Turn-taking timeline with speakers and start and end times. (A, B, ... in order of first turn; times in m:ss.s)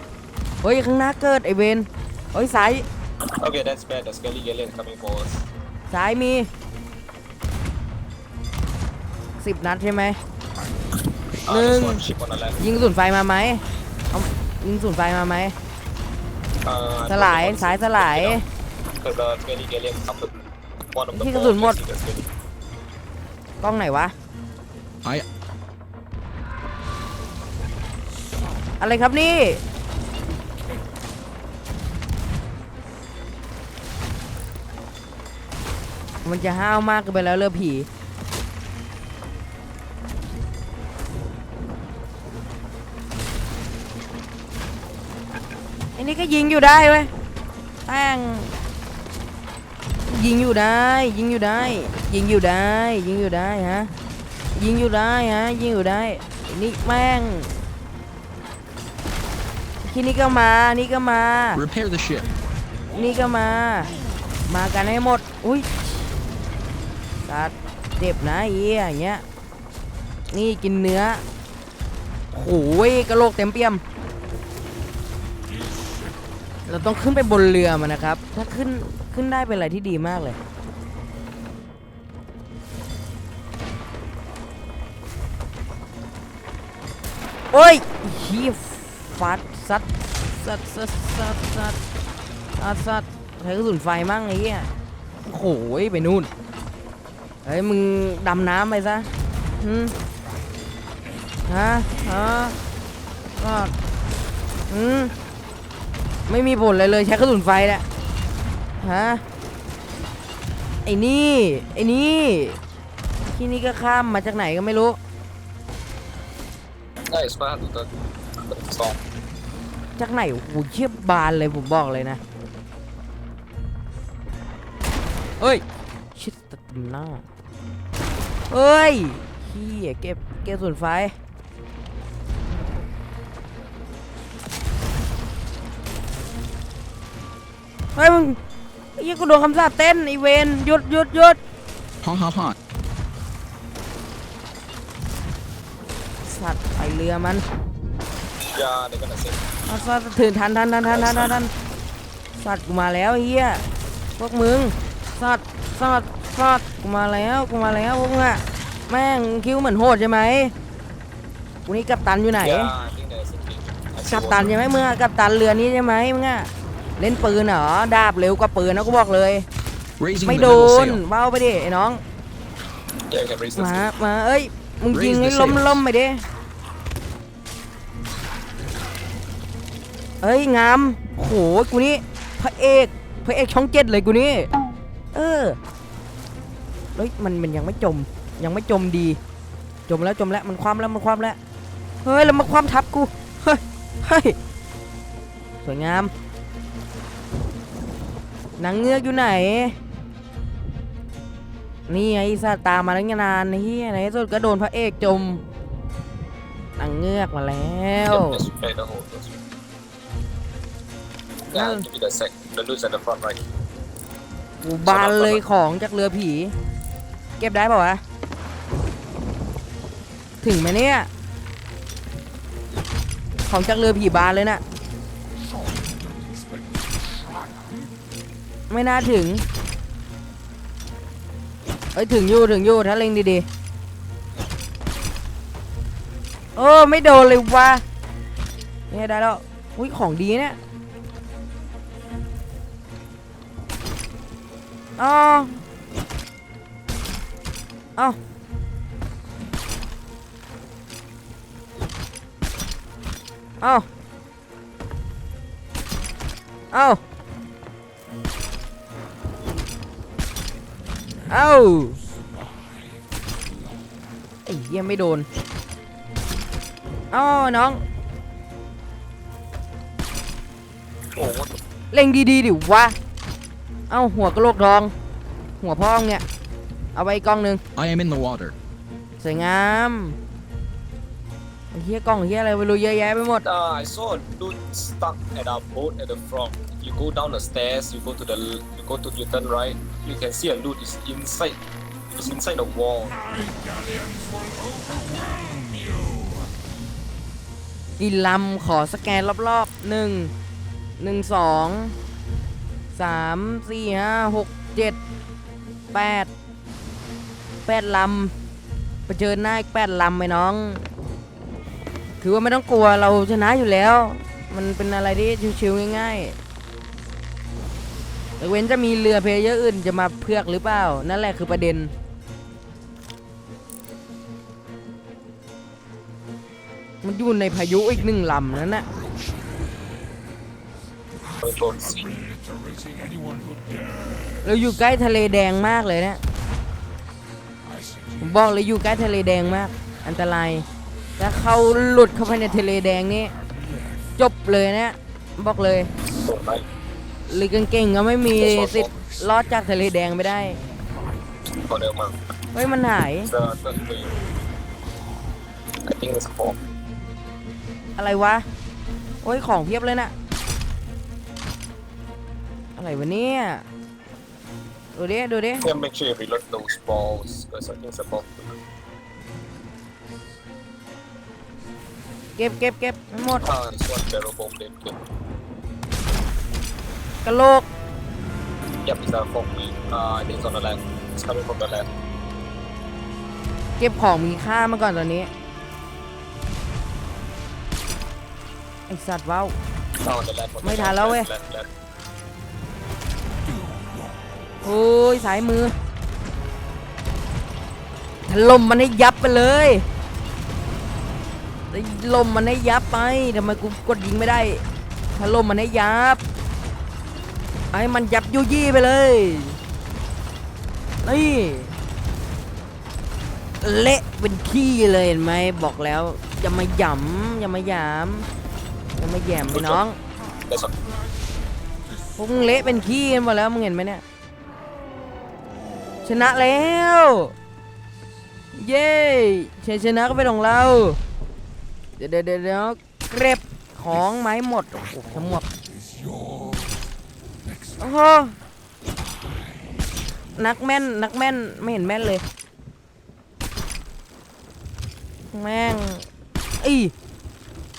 0:00.6-0:02.9 A
0:03.2-0:05.4 B
0:05.9-0:06.5 A
0:09.4-0:10.2 A
0:11.5-0:12.9 B
0:11.5-0:12.0 A
0:12.6-0:15.6 A
0:16.6-0:22.3 B
0:17.1-0:18.4 A
0:21.1-0:21.8 A
0:23.6-0:24.1 A
0:28.8-0:29.6 A
0:36.2-0:37.9 A
0:46.0-0:47.1 A
0:47.9-0:48.5 A
0:50.1-0:53.9 A
0:54.6-0:57.5 A
0:59.8-1:01.6 A
1:01.5-1:02.3 C
1:02.9-1:04.0 A
1:04.5-1:06.1 A
1:07.2-1:09.2 A
1:10.3-1:11.2 A
1:12.3-1:13.8 A
1:16.7-1:20.4 A
1:27.5-1:31.8 A
1:32.6-1:34.7 A
1:35.3-1:36.3 A
1:37.4-1:39.9 A
1:41.5-1:42.6 A
1:43.4-1:43.7 A
1:44.7-1:45.1 A
1:46.3-1:47.8 A
1:48.8-1:49.2 A
1:50.9-1:52.6 A
1:53.3-1:55.0 A
1:57.1-1:59.0 B
2:00.0-2:02.2 A
2:06.2-2:07.2 A
2:08.5-2:11.1 A
2:18.0-2:18.4 A
2:19.0-2:21.4 A
2:22.0-2:22.6 C
2:26.3-2:27.4 A
2:28.4-2:29.5 B
2:29.7-2:31.5 A
2:30.9-2:31.3 B
2:32.4-2:33.6 A
2:34.2-2:40.5 A
2:41.7-2:42.7 A
2:42.4-2:44.5 B
2:44.1-2:49.5 A
2:50.0-2:51.0 C
2:50.2-2:52.0 A
2:53.1-2:53.9 B
2:53.6-2:56.2 A
2:54.9-2:55.8 C
3:00.2-3:04.5 A
3:05.1-3:05.6 A
3:07.0-3:09.2 A
3:09.9-3:11.4 A
3:12.0-3:14.4 A
3:15.6-3:16.1 A
3:18.6-3:19.8 A
3:21.9-3:25.4 A
3:26.8-3:28.4 A
3:28.1-3:29.4 B
3:31.5-3:33.4 B
3:31.5-3:31.8 A
3:34.6-3:36.5 A
3:34.8-3:35.4 B
3:37.4-3:38.0 A
3:40.4-3:41.1 A
3:43.5-3:44.6 A
3:48.7-3:49.4 A
3:52.0-3:53.5 A
3:56.6-3:57.8 A
3:58.9-4:00.6 A
4:05.0-4:05.6 A
4:13.6-4:13.9 A
4:16.7-4:17.0 A
4:21.3-4:22.0 A
4:24.5-4:25.3 A
4:27.1-4:27.8 A
4:31.2-4:31.6 B
4:31.9-4:33.0 A
4:33.9-4:34.9 A
4:35.6-4:36.2 A
4:37.0-4:37.6 A
4:37.8-4:38.6 C
4:39.2-4:40.2 A
4:41.7-4:43.4 A
4:43.4-4:51.6 B
4:52.1-4:53.2 B
4:58.0-5:00.3 A
5:01.0-5:02.0 A
5:03.0-5:05.0 A
5:05.9-5:06.3 A
5:07.7-5:08.3 A
5:09.1-5:10.8 A
5:12.2-5:16.4 A
5:18.4-5:21.9 A
5:27.0-5:28.9 A
5:31.4-5:32.2 B
5:34.4-5:36.2 A
5:38.2-5:40.7 A
5:41.2-5:43.4 A
5:44.2-5:45.9 A
5:46.2-5:46.7 B
5:47.3-5:50.6 A
5:48.3-5:49.2 B
5:51.5-5:52.2 B
5:52.5-5:53.3 A
5:53.2-5:54.2 B
5:55.8-5:56.6 B
5:58.0-5:58.4 A
5:59.2-6:00.1 A
6:02.8-6:03.6 A
6:05.0-6:05.6 A
6:05.6-6:08.6 B
6:12.4-6:13.5 A
6:13.4-6:15.0 B
6:17.2-6:17.7 A
6:18.8-6:21.9 B
6:23.8-6:25.3 A
6:28.9-6:29.6 A
6:30.0-6:31.7 B
6:30.6-6:31.3 A
6:34.6-6:35.8 A
6:38.3-6:39.9 A
6:41.7-6:44.6 A
6:45.2-6:46.2 A
6:47.7-6:49.6 A
6:51.0-6:51.8 A
6:53.6-6:58.3 A
6:59.0-7:00.0 A
6:59.5-6:59.8 B
7:00.5-7:00.8 B
7:02.2-7:04.0 A
7:06.0-7:07.3 A
7:08.6-7:11.0 A
7:12.0-7:15.4 A
7:17.8-7:18.4 A
7:20.4-7:22.2 A
7:25.3-7:26.1 A
7:26.6-7:26.9 A